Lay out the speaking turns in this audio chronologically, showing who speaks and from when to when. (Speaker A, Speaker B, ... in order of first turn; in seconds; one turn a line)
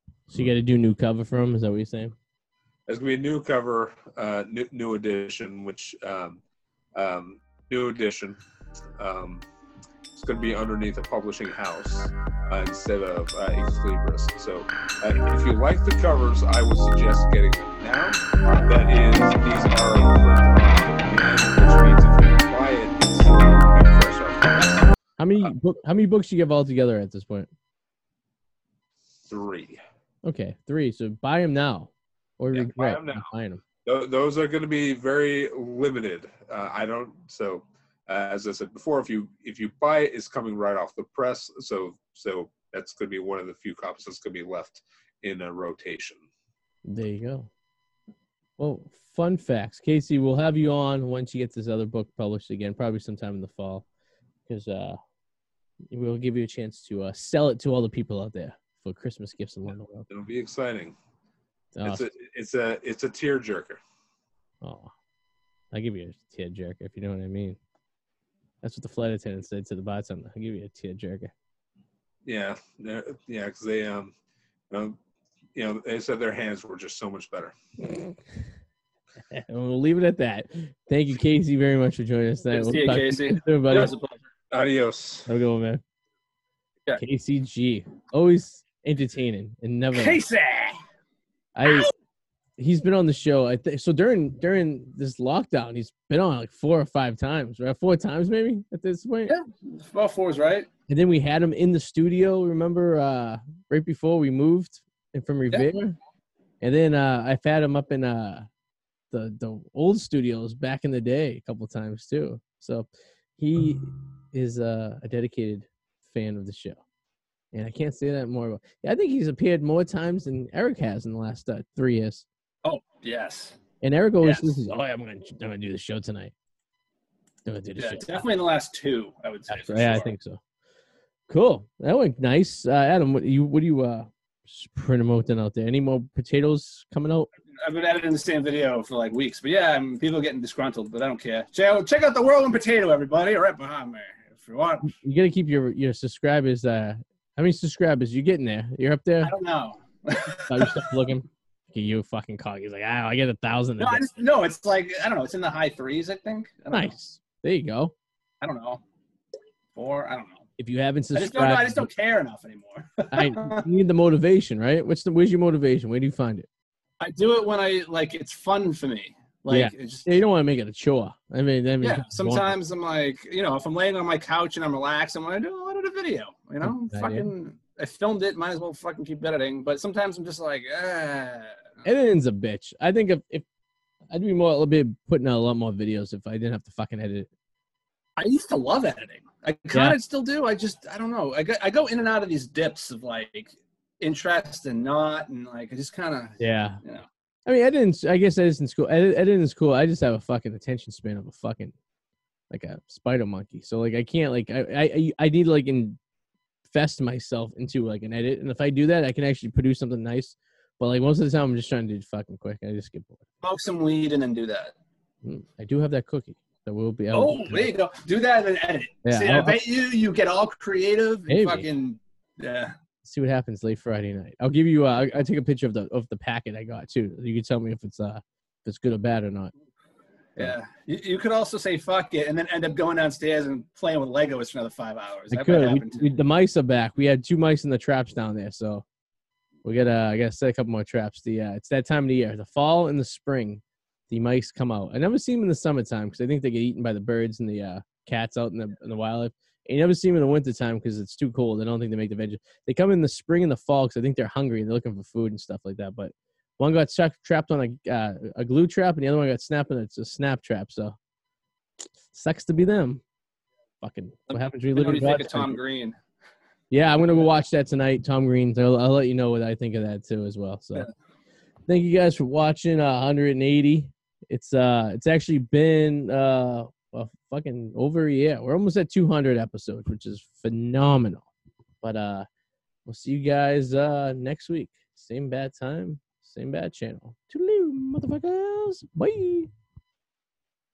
Speaker A: 0.3-2.1
Speaker B: 2.9-6.4
Speaker B: 7.0-8.4
Speaker B: 9.0-9.4
Speaker B: 10.1-25.5
Speaker A: 25.2-27.5
Speaker B: 29.3-29.8
Speaker A: 30.2-33.6
Speaker B: 32.5-33.3
Speaker B: 33.9-46.2
Speaker A: 46.9-47.5
Speaker A: 48.6-53.9
Speaker A: 54.5-55.0
Speaker A: 55.9-60.1
Speaker B: 60.1-61.0
Speaker A: 61.7-62.0
Speaker B: 61.8-63.8
Speaker A: 64.6-64.9
Speaker A: 65.7-67.6
Speaker A: 68.6-71.3
Speaker B: 72.2-74.1
Speaker B: 74.7-75.0
Speaker B: 75.5-77.5
Speaker A: 79.3-83.9
Speaker C: 82.5-84.2
Speaker B: 84.5-85.3
Speaker A: 85.3-85.8
Speaker A: 87.0-90.2
Speaker C: 89.9-90.8
Speaker A: 91.5-91.9
Speaker C: 91.6-91.9
Speaker A: 92.6-99.3
Speaker C: 99.3-100.7
Speaker A: 100.9-106.0
Speaker A: 106.6-108.5
Speaker A: 109.1-116.8
Speaker A: 117.5-122.3
Speaker C: 122.6-123.6
Speaker A: 123.8-126.3
Speaker C: 124.2-124.5
Speaker A: 127.5-128.2
Speaker C: 127.8-130.1
Speaker A: 129.5-130.4
Speaker A: 131.3-137.3
Speaker C: 137.6-144.9
Speaker A: 144.9-149.3
Speaker C: 149.2-150.9
Speaker A: 150.5-154.0
Speaker C: 153.8-156.9
Speaker A: 156.7-157.9
Speaker C: 158.4-158.8
Speaker C: 159.7-160.5
Speaker A: 160.6-161.9
Speaker C: 161.1-163.7
Speaker A: 163.1-166.5
Speaker C: 167.0-170.2
Speaker A: 169.5-172.5
Speaker C: 171.8-181.8
Speaker A: 176.6-177.3
Speaker A: 181.8-183.4
Speaker A: 184.1-187.3
Speaker C: 188.2-197.1
Speaker A: 189.7-190.0
Speaker A: 196.4-196.8
Speaker A: 197.4-201.7
Speaker A: 202.5-206.0
Speaker A: 206.7-213.2
Speaker C: 213.4-214.7
Speaker A: 215.2-217.7
Speaker C: 217.1-222.7
Speaker A: 219.0-219.6
Speaker A: 221.3-221.7
Speaker A: 223.0-229.5
Speaker C: 230.4-236.1
Speaker A: 235.3-238.8
Speaker A: 239.6-260.9
Speaker A: 262.1-263.0
Speaker A: 263.8-265.6
Speaker C: 264.3-266.0
Speaker A: 266.7-270.9
Speaker A: 271.7-281.3
Speaker A: 281.8-282.3
Speaker A: 282.9-289.5